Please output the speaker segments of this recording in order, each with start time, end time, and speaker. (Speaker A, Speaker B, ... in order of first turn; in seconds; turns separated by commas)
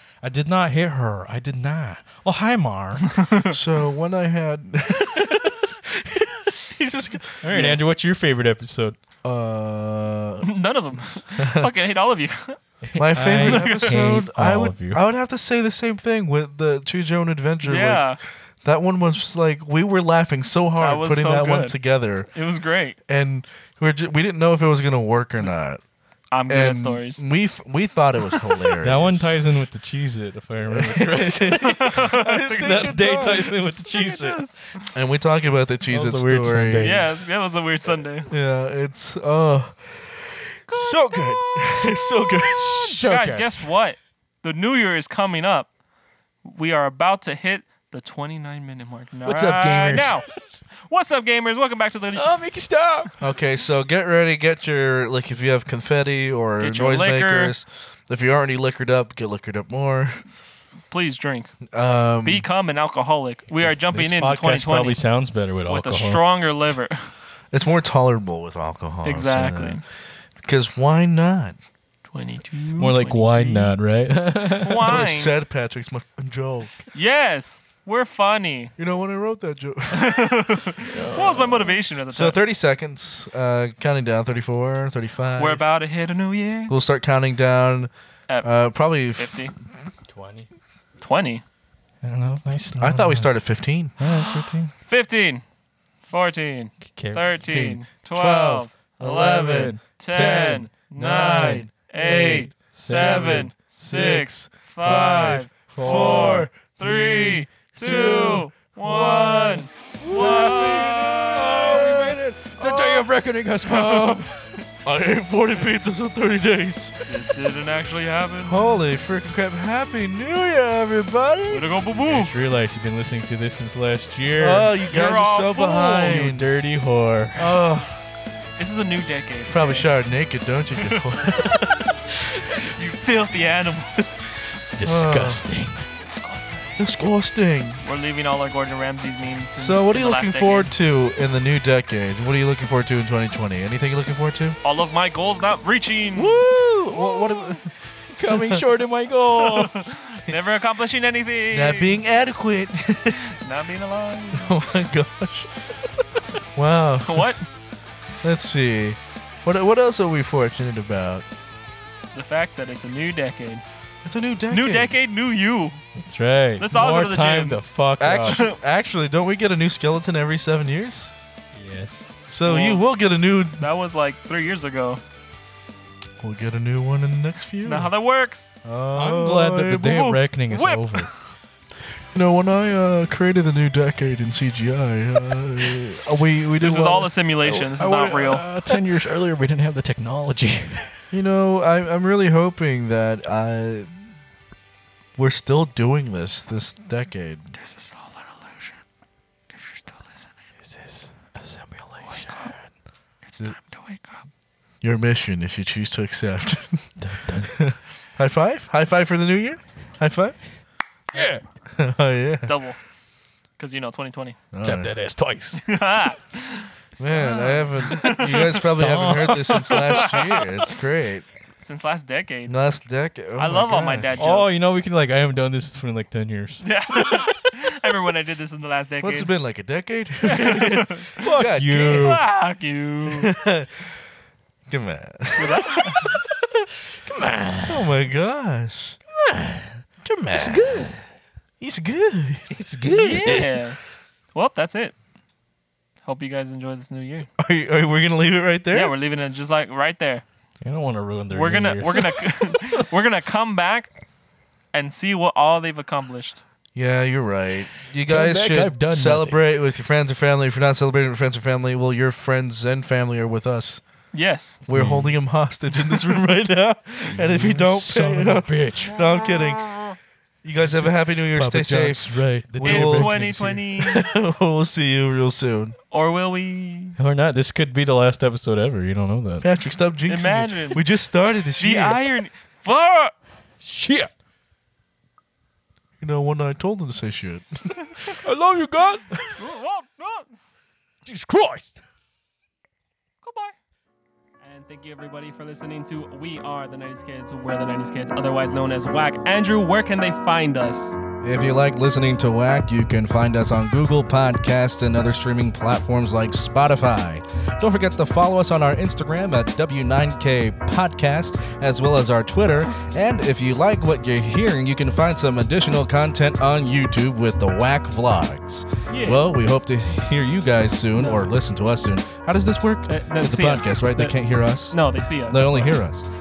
Speaker A: 0.2-3.3, Speaker B: 3.1-3.6, Speaker C: 3.5-7.5, Speaker A: 7.4-9.0, Speaker B: 7.5-7.9, Speaker C: 9.2-10.5, Speaker B: 10.4-12.6, Speaker C: 11.4-11.7, Speaker A: 12.9-15.0, Speaker C: 13.0-18.1, Speaker B: 13.2-14.0, Speaker B: 17.6-18.2, Speaker C: 18.6-22.3, Speaker B: 20.8-23.0, Speaker C: 23.1-25.8, Speaker B: 26.3-27.2, Speaker C: 26.5-29.4, Speaker A: 28.8-34.5, Speaker C: 30.7-33.5, Speaker B: 31.6-34.9, Speaker C: 34.9-37.0, Speaker A: 35.9-37.1, Speaker B: 36.8-38.3, Speaker C: 38.3-43.0, Speaker A: 42.5-43.7, Speaker B: 43.0-45.7, Speaker B: 46.4-50.3, Speaker A: 49.2-50.4, Speaker B: 50.9-52.3, Speaker A: 52.1-53.2, Speaker C: 53.2-60.2, Speaker B: 56.6-57.6, Speaker B: 60.9-61.5, Speaker C: 61.7-62.5, Speaker B: 62.2-65.0, Speaker A: 63.6-66.2, Speaker B: 65.7-67.1, Speaker C: 67.5-69.8, Speaker B: 69.0-69.8, Speaker C: 70.4-71.6, Speaker B: 72.1-73.8, Speaker A: 72.8-75.1, Speaker B: 74.5-75.4, Speaker C: 74.8-76.9, Speaker B: 76.9-78.7, Speaker C: 78.8-80.3, Speaker B: 79.9-82.4, Speaker A: 80.8-81.8, Speaker C: 82.1-85.6, Speaker B: 85.4-86.7, Speaker C: 86.7-87.9, Speaker C: 88.4-89.5, Speaker B: 89.1-89.5, Speaker A: 90.1-90.5, Speaker B: 91.0-91.4, Speaker A: 92.0-93.3, Speaker C: 92.8-93.9, Speaker A: 94.0-94.7, Speaker B: 94.8-95.4, Speaker B: 96.1-112.1, Speaker A: 96.8-97.4, Speaker C: 97.5-112.9, Speaker A: 102.8-103.5, Speaker A: 104.8-106.5, Speaker A: 109.1-114.5, Speaker C: 114.8-117.0, Speaker B: 117.1-118.7, Speaker C: 118.4-121.7, Speaker B: 121.5-122.3, Speaker A: 122.0-124.8, Speaker C: 124.3-126.6, Speaker B: 124.9-126.3, Speaker A: 126.0-127.6, Speaker C: 127.3-128.0, Speaker B: 128.6-129.9, Speaker C: 129.5-132.0, Speaker B: 132.6-134.1, Speaker A: 134.7-135.9, Speaker C: 134.8-135.5, Speaker B: 136.1-136.8, Speaker C: 136.8-137.8, Speaker B: 137.8-140.7, Speaker C: 139.6-144.6, Speaker B: 144.6-146.4, Speaker C: 146.2-147.7, Speaker A: 148.1-150.0, Speaker C: 148.3-148.6, Speaker B: 149.4-152.0, Speaker C: 151.5-153.3, Speaker B: 153.2-154.5, Speaker C: 154.3-155.5, Speaker C: 156.6-157.4, Speaker B: 157.1-157.4, Speaker C: 158.2-161.3, Speaker B: 162.1-163.6, Speaker C: 164.0-164.9, Speaker B: 164.5-165.8, Speaker A: 166.0-168.5, Speaker B: 166.6-167.6, Speaker C: 168.0-171.1, Speaker B: 168.3-168.6, Speaker A: 171.5-172.1, Speaker C: 172.3-173.6, Speaker B: 172.4-172.8, Speaker B: 173.6-175.0, Speaker C: 176.2-177.9, Speaker B: 177.6-178.5, Speaker C: 178.6-180.2, Speaker A: 178.9-181.2, Speaker B: 180.5-181.2, Speaker C: 182.1-187.1, Speaker B: 186.6-188.4, Speaker A: 187.4-191.0, Speaker C: 191.1-193.9, Speaker C: 195.2-197.5, Speaker B: 197.6-198.8, Speaker B: 199.5-200.3, Speaker A: 200.6-202.7, Speaker B: 202.1-202.6, Speaker B: 203.2-204.3, Speaker C: 204.8-210.4, Speaker A: 207.0-207.7, Speaker A: 211.1-211.4, Speaker C: 211.8-212.6, Speaker B: 212.5-212.8, Speaker B: 213.6-214.4, Speaker C: 214.5-214.9, Speaker A: 214.6-215.6, Speaker B: 215.6-218.7, Speaker C: 217.0-221.3, Speaker A: 218.1-220.2, Speaker B: 219.4-220.5, Speaker B: 221.6-222.6, Speaker C: 222.5-224.1, Speaker B: 223.4-224.6, Speaker A: 224.2-227.3, Speaker B: 226.6-229.3, Speaker C: 229.0-232.2, Speaker B: 230.2-231.2, Speaker A: 231.2-232.2, Speaker B: 231.7-233.3, Speaker C: 233.2-234.0, Speaker C: 234.7-236.7, Speaker B: 235.4-236.1, Speaker A: 237.0-237.9, Speaker C: 237.7-239.0, Speaker A: 239.2-239.8, Speaker C: 240.0-240.9, Speaker A: 240.3-241.0, Speaker C: 241.6-243.4, Speaker A: 242.5-243.6, Speaker B: 242.9-243.8, Speaker B: 244.3-244.9, Speaker B: 246.1-247.3, Speaker C: 247.4-248.9, Speaker B: 248.7-250.2, Speaker A: 250.6-252.7, Speaker B: 251.3-253.9, Speaker B: 254.7-256.4, Speaker C: 256.8-263.8, Speaker A: 258.1-259.4, Speaker B: 264.1-264.6, Speaker C: 264.7-273.2, Speaker A: 264.7-265.2, Speaker A: 267.1-269.1, Speaker B: 269.1-269.9, Speaker A: 270.6-273.7, Speaker B: 272.6-274.1, Speaker C: 273.8-275.8, Speaker B: 275.9-277.0, Speaker A: 277.0-279.5, Speaker C: 279.4-282.0, Speaker B: 280.1-280.9, Speaker B: 281.6-283.1, Speaker A: 283.6-284.1, Speaker C: 286.0-287.7, Speaker A: 288.0-289.3, Speaker B: 289.4-290.3, Speaker A: 291.1-291.8, Speaker B: 293.2-293.6, Speaker B: 294.4-301.0, Speaker C: 301.2-326.1, Speaker B: 318.9-319.2, Speaker B: 322.9-325.7